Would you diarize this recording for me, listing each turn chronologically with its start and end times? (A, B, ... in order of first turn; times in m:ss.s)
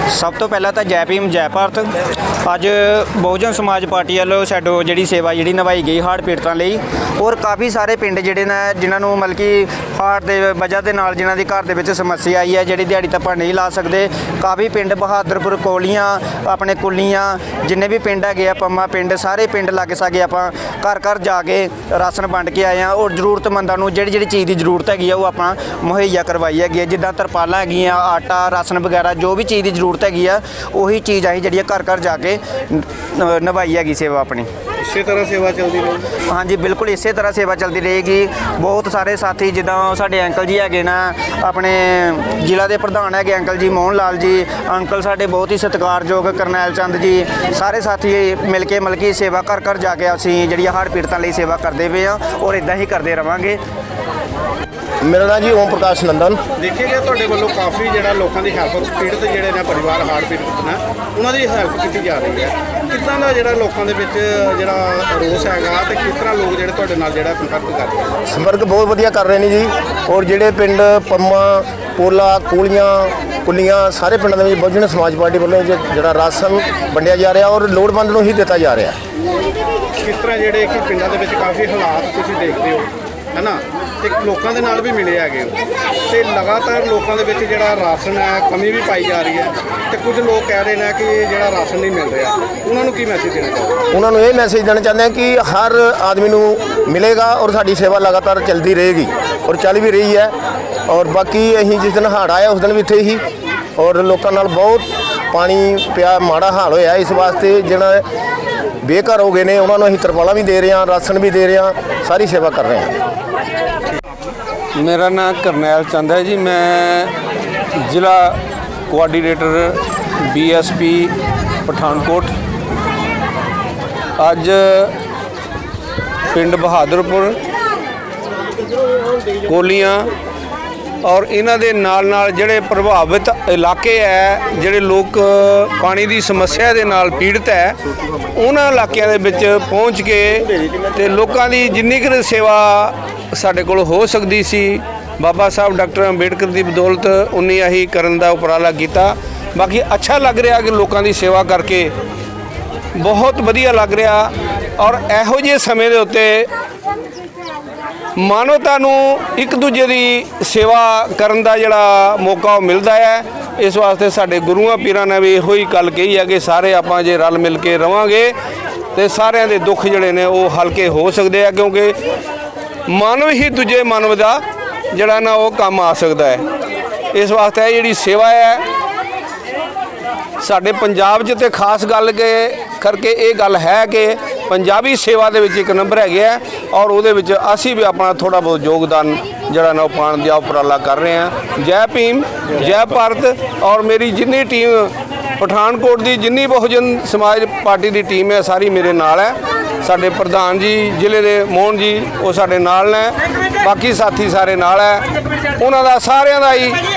0:00.1-0:34.5 A
0:34.8-0:36.0 B
0:36.3-0:53.6 A
0:55.0-0:56.4 C
0:56.6-1:08.1 B
1:08.3-1:19.0 C
1:20.0-1:33.8 B
1:33.9-1:40.3 C
1:40.9-1:43.2 C
1:43.8-1:48.0 C
1:48.8-1:53.0 C
1:54.7-1:57.1 D
1:57.8-2:01.1 D
2:01.6-2:02.3 D
2:04.2-2:04.9 D
2:06.3-2:07.4 D
2:09.4-2:10.1 D
2:11.0-2:17.8 D
2:18.3-2:31.9 D
2:32.9-2:36.5 D
2:38.2-2:48.3 D
2:48.9-2:52.0 D
2:52.9-2:56.4 D
2:57.1-2:58.6 D
3:00.4-3:25.0 D
3:25.6-3:26.8 D